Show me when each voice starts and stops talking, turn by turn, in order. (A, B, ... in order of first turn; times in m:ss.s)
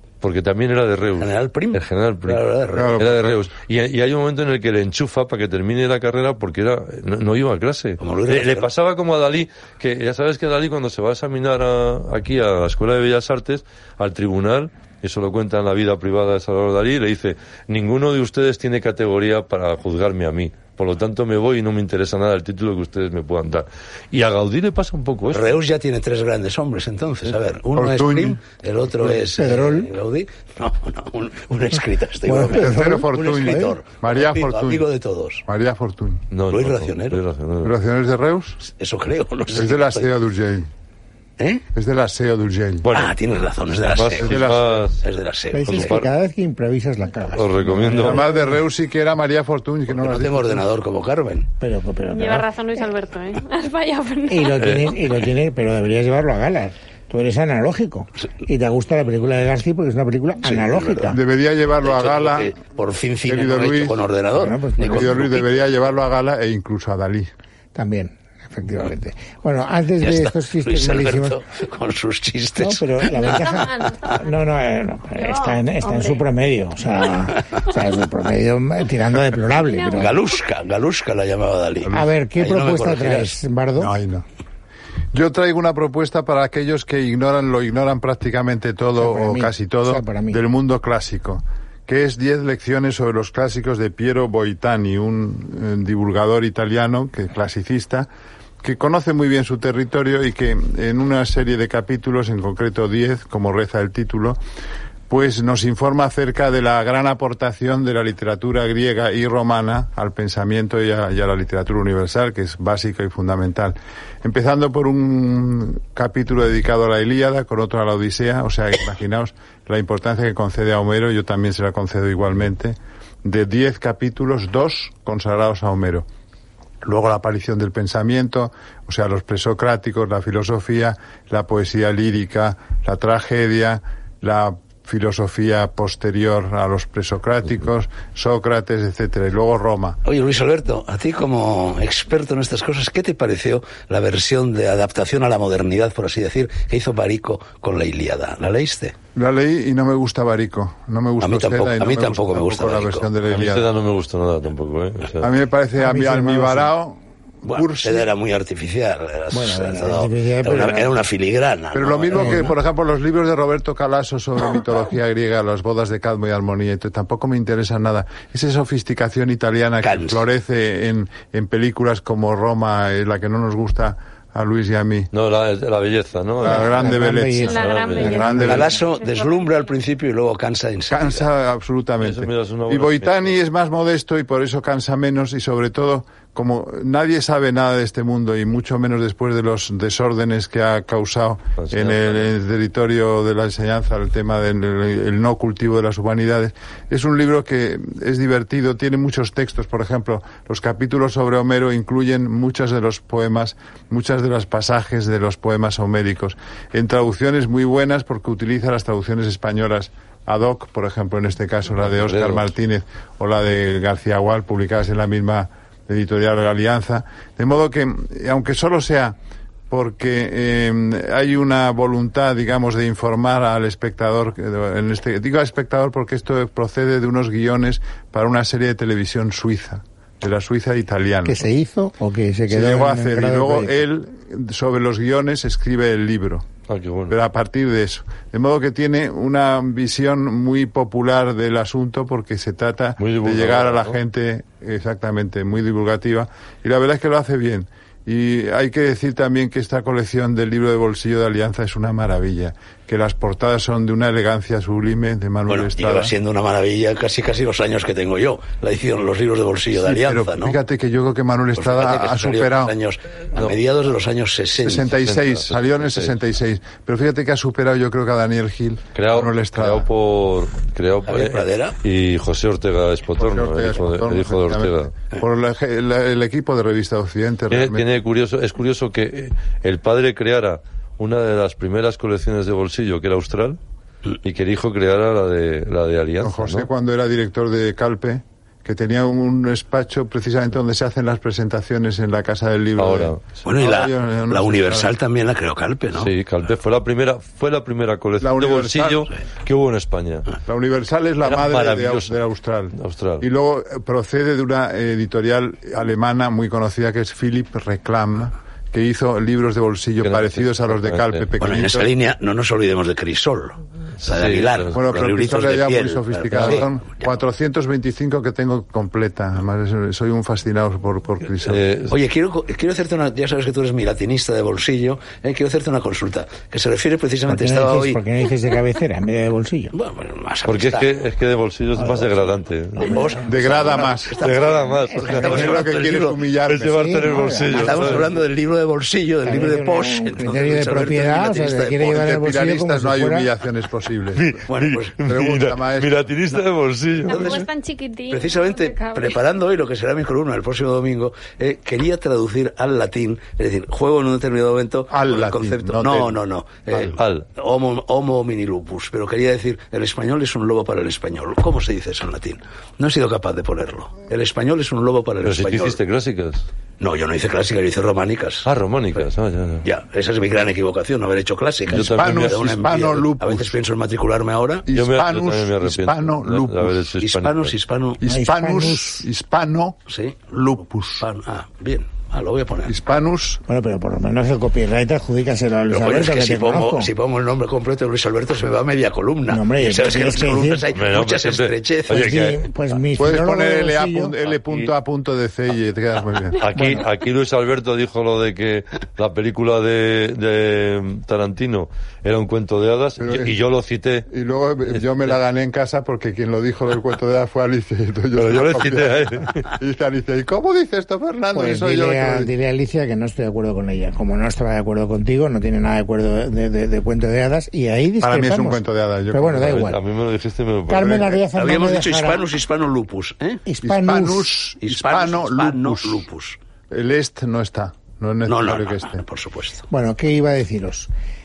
0:00.2-0:25.6 A
0:01.2-0:03.0 B
0:02.8-0:03.5 C
0:08.0-0:08.7 B
0:25.3-0:35.4 B
0:27.8-0:28.4 C
0:29.3-0:29.9 D
0:32.3-0:33.8 D
0:32.5-0:34.9 C
0:35.5-0:36.2 C
0:36.3-0:37.8 A
0:36.5-0:37.2 B
0:37.6-0:38.6 C
0:38.6-0:40.1 B
0:39.5-0:40.7 C
0:41.4-0:41.7 B
0:41.8-0:42.9 C
0:42.8-0:43.2 A
0:42.9-0:44.5 B
0:43.9-0:45.0 A
0:44.2-0:44.9 C
0:45.0-0:46.0 B
0:45.5-0:48.6 D
0:45.6-0:46.1 A
0:47.3-0:48.2 A
0:48.0-0:50.7 C
0:49.9-0:51.5 B
0:51.6-0:52.5 D
0:52.1-0:54.9 E
0:54.3-1:01.2 D
0:54.6-0:54.9 A
1:00.4-1:01.2 B
1:01.1-1:02.6 C
1:01.8-1:05.5 B
1:03.3-1:04.0 C
1:04.3-1:05.3 D
1:04.8-1:07.3 C
1:07.8-1:11.4 D
1:10.0-1:14.1 B
1:12.6-1:20.2 D
1:13.2-1:14.2 E
1:15.2-1:16.2 E
1:19.6-1:20.2 E
1:20.0-1:23.4 B
1:21.8-1:22.1 C
1:21.9-1:23.9 D
1:23.8-1:24.2 C
1:25.1-1:38.1 C
1:29.0-1:30.4 D
1:38.6-1:44.4 C
1:45.1-2:06.1 C
2:06.8-2:20.0 C
2:20.0-2:29.0 B
2:29.2-2:33.7 C
2:31.2-2:33.1 B
2:33.2-2:35.3 A
2:35.2-2:38.1 C
2:35.8-2:36.7 D
2:37.4-2:42.4 B
2:39.3-2:40.9 D
2:41.7-2:55.1 C
2:42.2-2:42.5 D
2:49.8-2:50.2 B
2:55.1-2:56.9 A
2:56.4-2:58.7 C
2:56.4-2:58.8 D
2:57.4-2:59.7 E
2:57.5-2:58.2 A
2:58.5-3:01.2 B
3:00.9-3:39.2 C
3:02.0-3:03.3 A
3:11.6-3:12.3 A
3:31.9-3:32.5 A
3:39.7-3:51.4 C
3:51.2-3:53.8 D
3:52.5-3:56.5 C
3:56.7-3:57.2 A
3:57.1-4:16.1 C
4:03.0-4:04.0 A
4:15.5-4:20.6 B
4:19.7-4:22.7 C
4:21.6-4:24.9 B
4:24.6-4:29.9 C
4:24.9-4:26.1 A
4:29.0-4:34.9 A
4:31.1-4:31.8 B
4:33.2-4:37.9 C
4:37.5-4:43.6 A
4:44.2-4:46.7 A
4:46.2-4:54.9 C
4:52.8-4:53.4 A
4:53.4-4:56.1 B
4:56.0-5:00.3 A
4:58.2-4:59.1 C
5:00.4-5:11.9 C
5:01.2-5:02.2 A
5:02.8-5:03.3 A
5:10.0-5:11.3 A
5:11.4-5:16.7 B
5:14.0-5:14.8 A
5:14.7-5:21.6 C
5:16.3-5:16.6 A
5:21.4-5:22.0 A
5:21.9-5:28.0 B
5:27.3-5:29.7 D
5:29.7-5:30.9 B
5:30.4-5:33.1 A
5:31.8-5:33.2 D
5:32.8-5:36.2 B
5:33.3-5:34.2 C
5:34.2-5:35.6 A
5:34.9-5:35.3 D
5:35.1-5:36.9 C
5:36.5-5:38.2 A
5:36.7-5:38.1 D
5:37.5-5:42.0 B
5:39.2-5:43.3 D
5:41.9-5:44.4 C
5:44.2-5:47.5 A
5:44.5-5:44.9 B
5:45.1-5:45.9 C
5:47.1-5:49.2 E
5:47.1-5:47.5 B
5:48.1-6:05.8 B
5:54.9-5:56.2 C
5:57.0-5:57.3 A
6:05.2-6:06.5 A
6:06.8-6:09.1 B
6:08.4-6:09.7 A
6:09.6-6:14.7 B
6:11.7-6:12.6 A
6:11.7-6:13.6 C
6:14.7-6:16.9 C
6:14.7-6:17.6 A
6:17.0-6:18.0 B
6:18.0-6:19.8 C
6:18.0-6:19.0 D
6:19.9-6:20.3 B
6:20.3-6:21.0 C
6:21.0-6:22.8 B
6:22.7-6:23.4 C
6:23.5-6:26.9 D
6:25.7-6:32.2 B
6:29.3-6:30.7 D
6:30.7-6:32.5 A
6:31.9-6:34.2 D
6:33.0-6:36.4 C
6:36.4-6:44.1 A
6:36.6-6:36.8 D
6:43.0-6:43.4 C
6:44.1-6:52.3 C
6:48.1-6:49.5 A
6:51.3-6:59.8 D
6:58.0-6:59.8 C
6:59.4-7:01.2 A
7:00.7-7:02.2 D
7:00.8-7:01.2 C
7:01.3-7:03.4 B
7:03.4-7:04.4 D
7:03.6-7:06.1 C
7:04.6-7:06.4 B
7:06.7-7:09.0 C
7:08.3-7:09.7 B
7:09.7-7:10.9 D